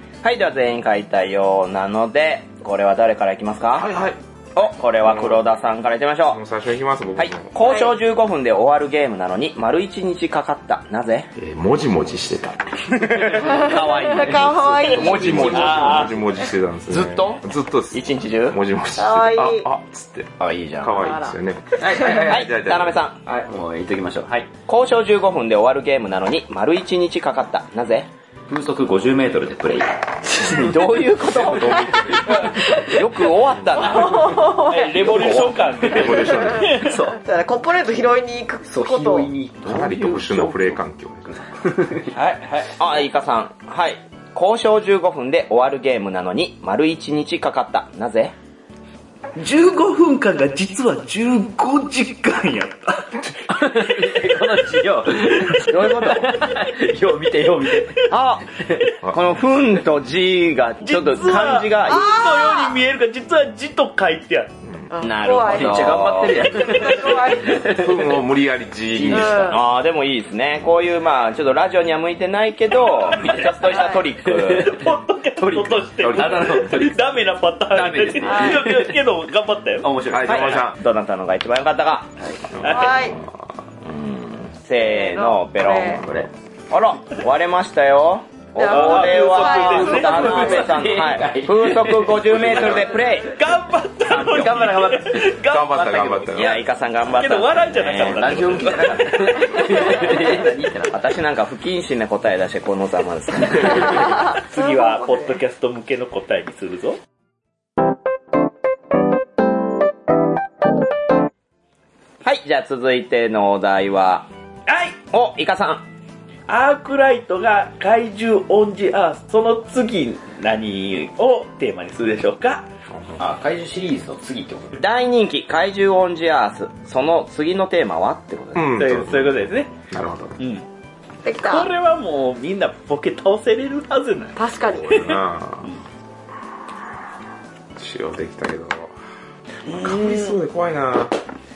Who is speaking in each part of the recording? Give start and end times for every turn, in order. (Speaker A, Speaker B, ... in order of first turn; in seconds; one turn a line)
Speaker A: 0.2-3.9
Speaker B: 3.7-4.2
Speaker A: 4.5-6.4
Speaker B: 4.9-5.7
Speaker B: 6.3-7.5
Speaker A: 7.2-11.3
Speaker C: 7.6-7.9
Speaker B: 11.3-12.6
Speaker A: 12.9-16.1
Speaker C: 13.3-15.9
Speaker B: 14.8-23.0
Speaker D: 15.4-16.3
Speaker A: 16.9-18.6
Speaker C: 19.0-19.7
Speaker A: 20.4-21.2
Speaker C: 20.9-21.3
Speaker E: 21.8-22.5
Speaker A: 22.1-23.2
Speaker E: 23.3-24.5
Speaker A: 24.7-28.1
Speaker E: 28.5-30.9
Speaker A: 30.5-34.5
Speaker B: 31.2-32.5
Speaker E: 32.4-32.7
Speaker B: 33.5-34.0
Speaker C: 33.8-35.4
Speaker D: 34.4-37.0
Speaker B: 35.2-36.8
Speaker C: 36.1-39.3
Speaker E: 36.8-37.2
Speaker E: 38.7-40.8
Speaker B: 39.6-41.4
Speaker E: 41.3-42.2
Speaker D: 42.1-42.7
Speaker A: 42.8-48.3
Speaker D: 49.4-54.5
Speaker E: 53.5-58.9
Speaker A: 55.6-56.5
Speaker A: 58.1-58.5
Speaker A: 59.0-62.1
Speaker D: 60.8-64.5
Speaker C: 61.8-62.8
Speaker C: 64.9-67.7
Speaker A: 65.0-66.6
Speaker E: 65.5-68.1
Speaker B: 67.6-69.6
Speaker E: 68.9-69.4
Speaker C: 69.1-69.6
Speaker A: 69.5-74.8
Speaker D: 73.0-73.4
Speaker E: 73.1-74.8
Speaker C: 73.7-74.0
Speaker D: 74.4-79.9
Speaker E: 75.4-77.0
Speaker B: 76.0-76.8
Speaker E: 77.7-79.0
Speaker C: 78.2-78.6
Speaker E: 79.8-80.7
Speaker B: 80.1-80.8
Speaker A: 80.2-82.1
Speaker E: 82.2-82.6
Speaker B: 82.5-83.5
Speaker D: 82.6-83.0
Speaker C: 82.6-83.2
Speaker A: 83.8-86.1
Speaker C: 84.8-86.0
Speaker E: 86.0-86.3
Speaker A: 86.7-93.3
Speaker C: 88.6-90.8
Speaker D: 88.6-90.7
Speaker E: 89.9-92.9
Speaker D: 93.0-96.0
Speaker E: 94.1-96.4
Speaker B: 95.4-96.6
Speaker A: 96.3-98.9
Speaker D: 97.1-99.6
Speaker E: 98.0-101.2
Speaker A: 100.9-104.2
Speaker D: 104.1-107.0
Speaker C: 104.5-105.3
Speaker A: 112.2-114.3
Speaker D: 114.7-115.0
Speaker A: 115.1-115.8
Speaker D: 116.5-122.7
Speaker B: 122.9-123.2
Speaker E: 123.2-124.8
Speaker A: 124.8-128.8
Speaker B: 128.6-130.4
Speaker D: 128.8-129.7
Speaker D: 130.4-130.7
Speaker C: 131.2-131.7
Speaker D: 131.4-134.4
Speaker C: 134.4-135.2
Speaker B: 134.7-135.7
Speaker B: 137.8-138.9
Speaker D: 139.7-140.4
Speaker B: 139.7-141.1